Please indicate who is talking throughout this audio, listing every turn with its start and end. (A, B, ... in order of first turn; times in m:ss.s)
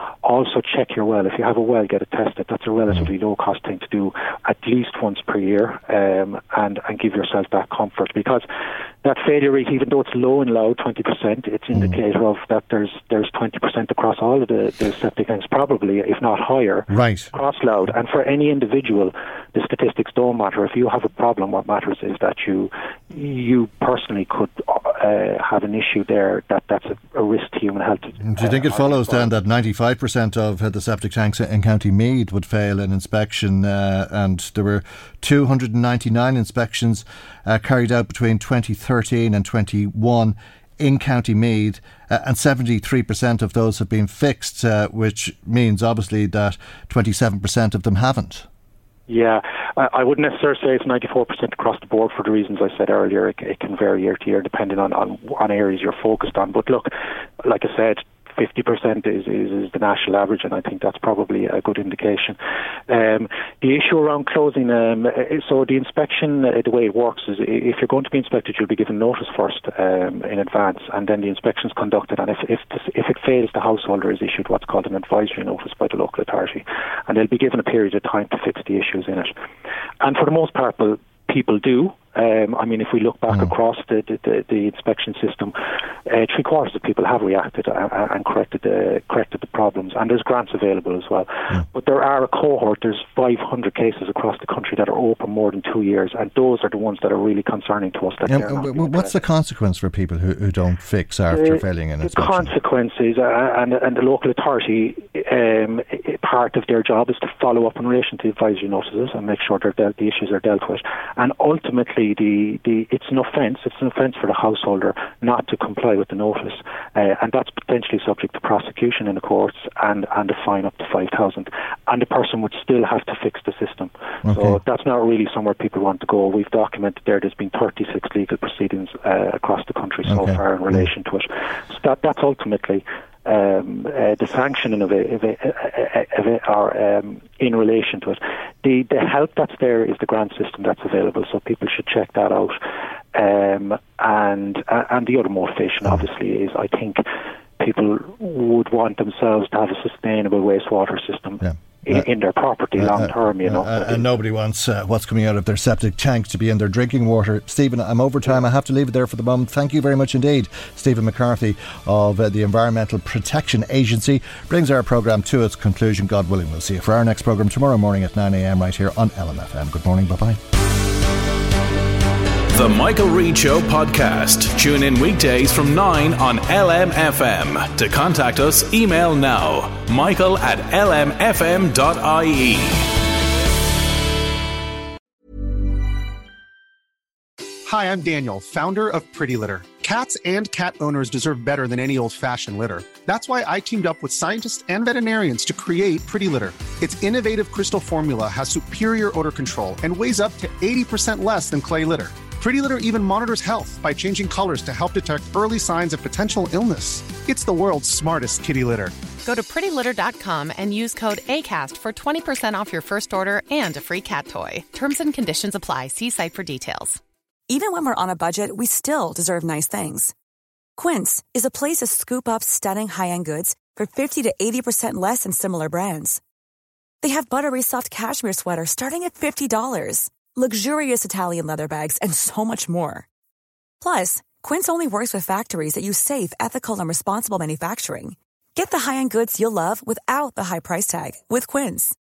0:00.2-0:08.5 A
0:09.0-0:29.3 A
0:16.9-0:17.3 B
0:28.2-0:48.5 B
0:49.1-1:02.4 A
1:02.9-1:19.3 A
1:20.0-1:39.2 A
1:38.2-1:42.5 B
1:41.3-2:22.6 A
2:04.2-2:04.6 B
2:10.1-2:10.4 B
2:23.1-2:27.0 A
2:27.6-2:34.1 A
2:31.4-2:32.0 B
2:32.8-2:50.4 B
2:52.5-3:02.8 C
3:07.6-3:29.0 D
3:29.2-3:37.0 E
3:37.5-3:40.1 F
3:40.8-3:46.2 F
3:47.0-3:53.0 F
3:53.8-4:02.0 F